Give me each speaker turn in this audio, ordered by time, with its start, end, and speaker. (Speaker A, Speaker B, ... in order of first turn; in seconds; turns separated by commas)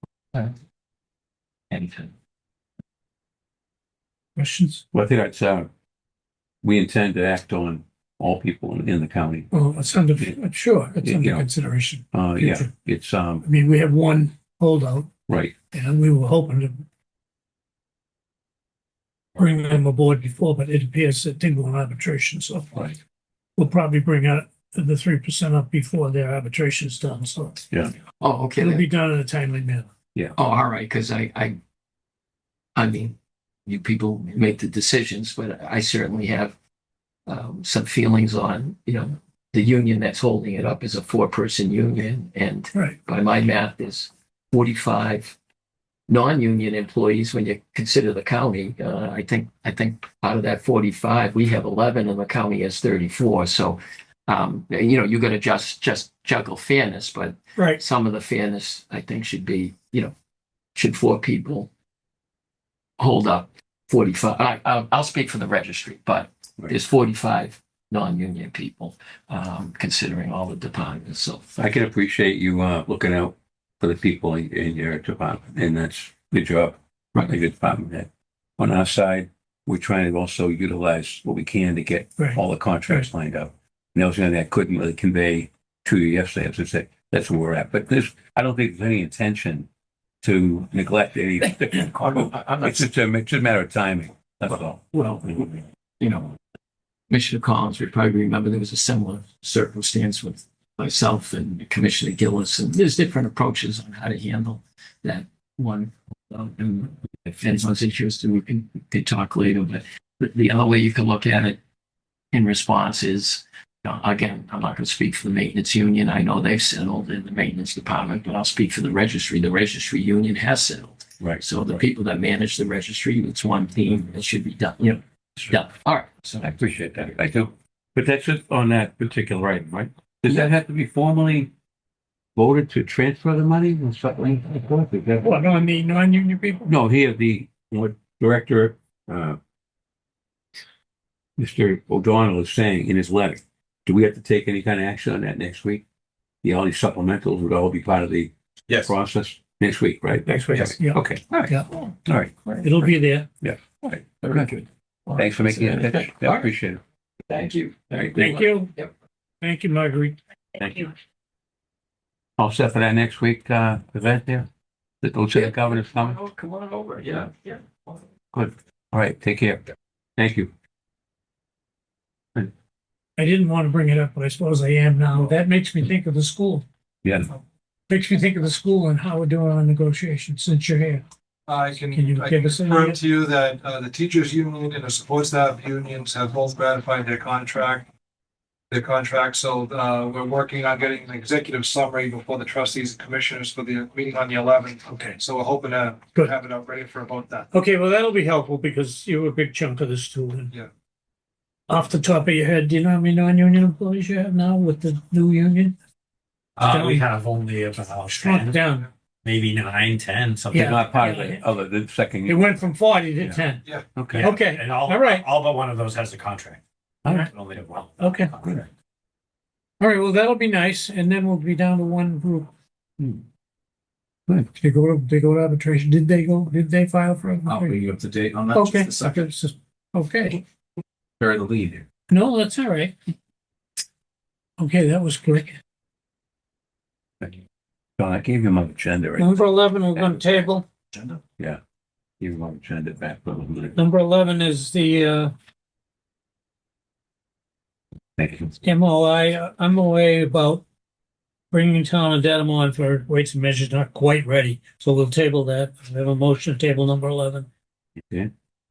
Speaker A: 1.7-2.1, Speaker B: 4.3-4.8, Speaker C: 4.9-5.7, Speaker C: 6.6-9.5, Speaker B: 9.5-12.7, Speaker C: 11.0-11.5, Speaker C: 12.1-13.4, Speaker B: 13.4-15.1, Speaker C: 15.3-15.5, Speaker B: 15.7-16.8, Speaker B: 19.4-23.0, Speaker B: 23.6-27.6, Speaker A: 28.2-28.9, Speaker B: 28.6-29.9, Speaker A: 30.4-31.6, Speaker A: 32.8-36.5, Speaker A: 37.3-45.4, Speaker A: 46.1-60.1, Speaker A: 60.7-61.7, Speaker A: 63.0-71.6, Speaker C: 71.6-89.7, Speaker B: 82.2-83.1, Speaker C: 90.2-94.8, Speaker A: 91.4-92.9, Speaker A: 94.9-96.3, Speaker A: 97.1-111.6, Speaker A: 112.3-126.6, Speaker C: 126.4-131.5, Speaker C: 132.3-135.4, Speaker B: 135.2-136.7, Speaker C: 136.7-139.4, Speaker C: 141.4-145.8, Speaker C: 146.4-151.5, Speaker B: 150.3-151.6, Speaker A: 151.3-151.9, Speaker C: 152.0-152.3, Speaker B: 152.6-153.3, Speaker A: 153.8-156.5, Speaker C: 155.2-156.8, Speaker A: 157.3-158.9, Speaker B: 158.2-158.7, Speaker B: 159.4-160.2, Speaker C: 160.6-160.9, Speaker C: 162.4-164.5, Speaker C: 165.0-166.2, Speaker A: 165.3-168.0, Speaker C: 168.3-169.6, Speaker C: 170.2-170.5, Speaker B: 173.2-176.7, Speaker C: 177.0-177.3, Speaker B: 177.9-181.0, Speaker D: 181.5-187.8, Speaker B: 181.9-183.0, Speaker D: 188.7-197.5, Speaker B: 194.9-195.2, Speaker B: 197.5-200.5, Speaker B: 201.7-205.8, Speaker E: 206.6-208.6, Speaker B: 206.6-207.1, Speaker B: 208.1-208.9, Speaker E: 209.2-210.7, Speaker B: 210.5-211.4, Speaker C: 210.5-212.5, Speaker B: 212.2-213.6, Speaker C: 213.9-214.3, Speaker E: 214.1-216.6, Speaker B: 214.2-215.2, Speaker C: 217.0-217.3, Speaker E: 217.2-218.7, Speaker B: 218.0-218.6, Speaker B: 219.8-222.5, Speaker B: 224.5-227.8, Speaker F: 227.4-229.3, Speaker B: 228.5-230.4, Speaker F: 231.2-231.8, Speaker B: 232.1-232.9, Speaker B: 234.6-235.6, Speaker C: 238.0-239.4, Speaker B: 239.2-240.7, Speaker C: 239.9-240.2, Speaker F: 240.9-241.2, Speaker C: 242.2-243.8, Speaker B: 243.7-245.3, Speaker C: 248.2-248.5, Speaker B: 248.6-250.6, Speaker B: 251.5-257.5